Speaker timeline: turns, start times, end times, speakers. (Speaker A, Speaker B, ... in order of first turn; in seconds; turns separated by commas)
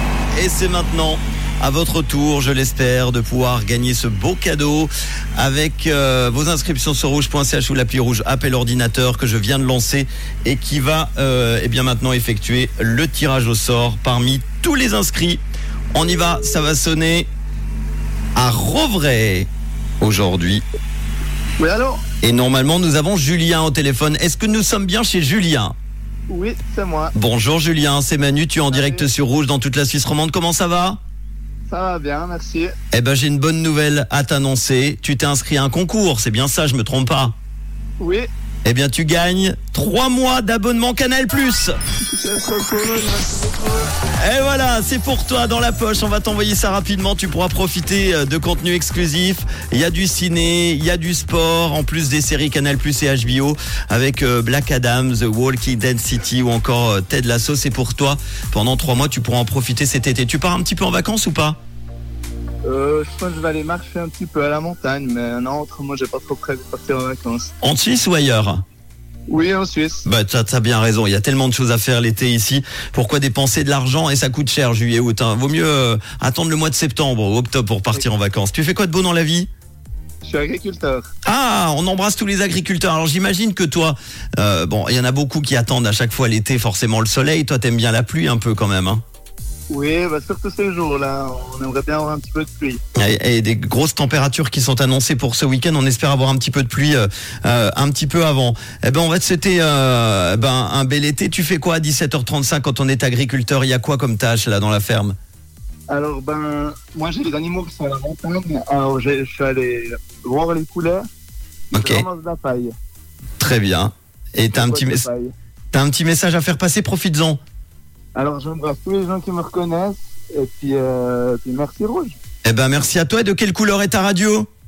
Speaker A: 0.3-15.4, Speaker A: 15.9-17.3, Speaker A: 18.4-19.5, Speaker A: 20.0-20.6, Speaker B: 21.6-22.0, Speaker A: 22.2-25.7, Speaker B: 26.3-27.1, Speaker A: 27.1-31.0, Speaker B: 28.7-29.1, Speaker B: 31.7-32.7, Speaker A: 32.9-37.4, Speaker B: 38.0-38.3, Speaker A: 38.6-41.7, Speaker B: 42.0-43.9, Speaker A: 44.2-61.6, Speaker B: 62.6-67.5, Speaker A: 67.6-68.6, Speaker B: 69.3-70.1, Speaker A: 70.0-79.5, Speaker B: 80.2-81.1, Speaker A: 81.2-89.0, Speaker B: 89.7-92.8, Speaker A: 92.9-105.1, Speaker B: 105.9-111.0, Speaker B: 111.7-112.7, Speaker A: 111.7-112.1, Speaker A: 113.4-115.0, Speaker B: 114.5-115.3, Speaker A: 115.7-117.4, Speaker B: 118.1-122.2, Speaker A: 122.4-124.5